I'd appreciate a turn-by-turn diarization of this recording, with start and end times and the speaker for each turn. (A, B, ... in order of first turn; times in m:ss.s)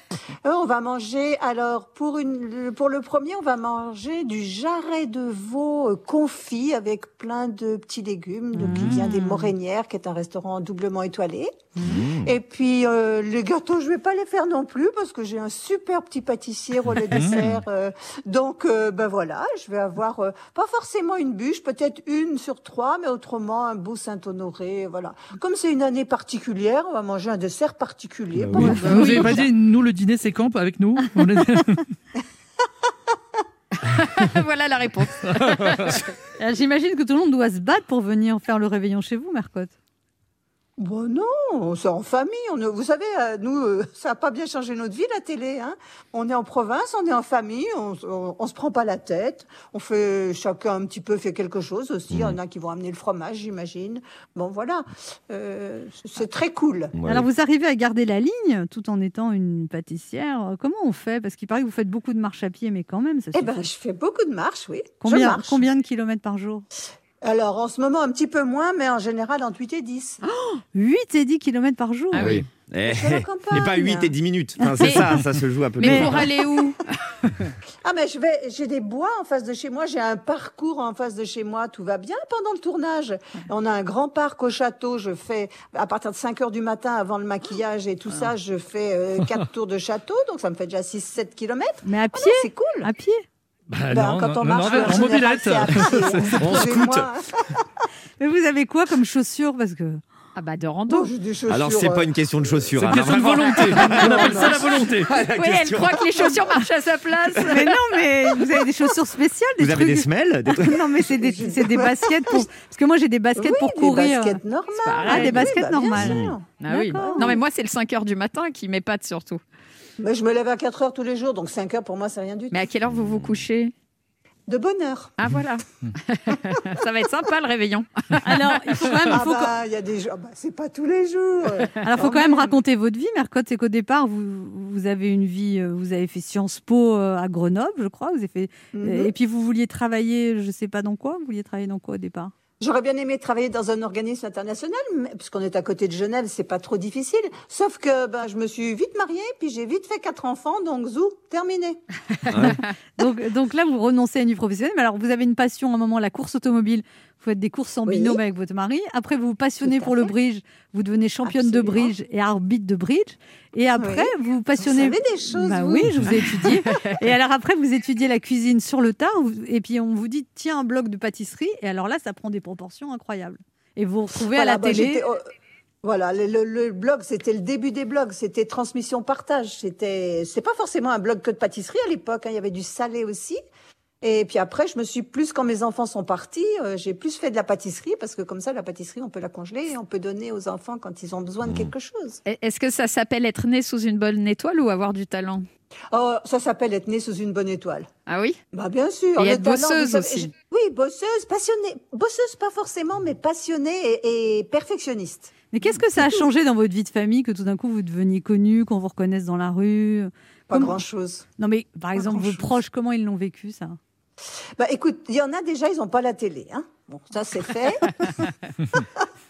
0:00.4-0:29.4 A
0:08.6-0:09.5 B
0:11.8-0:12.3 C
0:17.0-0:17.5 D
0:28.5-0:31.8 D
0:28.6-0:29.4 E
0:28.7-0:29.2 B
0:33.8-0:36.0 E
0:35.3-0:35.7 D
0:36.4-0:39.7 B
0:40.8-0:56.9 A
0:52.1-0:52.4 C
0:56.9-0:57.3 C
0:57.0-1:03.5 B
1:03.3-1:05.6 A
1:05.0-1:06.6 B
1:07.2-1:10.2 A
1:10.2-1:10.6 E
1:10.7-1:12.3 B
1:12.1-1:12.4 E
1:12.1-1:16.3 C
1:12.8-1:14.1 A
1:14.6-1:15.1 B
1:14.8-1:15.2 E
1:15.8-1:16.8 E
1:15.8-1:16.2 B
1:17.8-1:32.9 A
1:31.8-1:33.2 B
1:33.7-1:37.0 D
1:33.9-1:37.6 A
1:36.4-1:36.6 C
1:38.2-1:40.0 B
1:40.3-1:41.1 E
1:40.9-1:42.7 A
1:41.5-1:46.4 C
1:42.8-1:45.1 D
1:43.5-1:47.8 E
1:47.4-1:54.4 B
1:49.6-1:50.8 C
1:51.1-1:52.5 A
1:53.4-1:57.4 A
1:54.8-1:55.5 E
1:55.0-1:57.4 B
1:56.0-1:56.3 C
1:56.6-1:59.4 E
2:00.0-2:02.7 A
2:02.5-2:03.7 E
2:04.5-2:05.1 A
2:05.2-2:09.0 E
2:08.2-2:09.5 B
2:09.1-2:12.4 A
2:11.6-2:11.9 E
2:11.8-2:22.3 B
2:18.7-2:19.1 A
2:22.6-2:31.8 A
2:32.3-2:32.6 C
2:32.3-2:32.6 E
2:33.0-2:55.0 B
2:37.8-2:38.2 A
2:39.6-2:40.1 A
2:41.2-2:41.9 A
2:43.8-2:46.1 A
2:46.6-2:46.9 E
2:54.3-2:55.2 A
2:55.8-3:03.4 A
3:04.0-3:12.2 A
3:11.4-3:11.7 C
3:12.2-3:15.4 E
3:15.9-3:17.9 A
3:18.0-3:18.4 E
3:18.5-3:25.4 A
3:19.2-3:20.3 E
3:25.5-3:30.8 B
3:30.5-3:31.2 A
3:31.4-3:33.8 B
3:32.0-3:32.5 A
3:34.6-3:38.1 A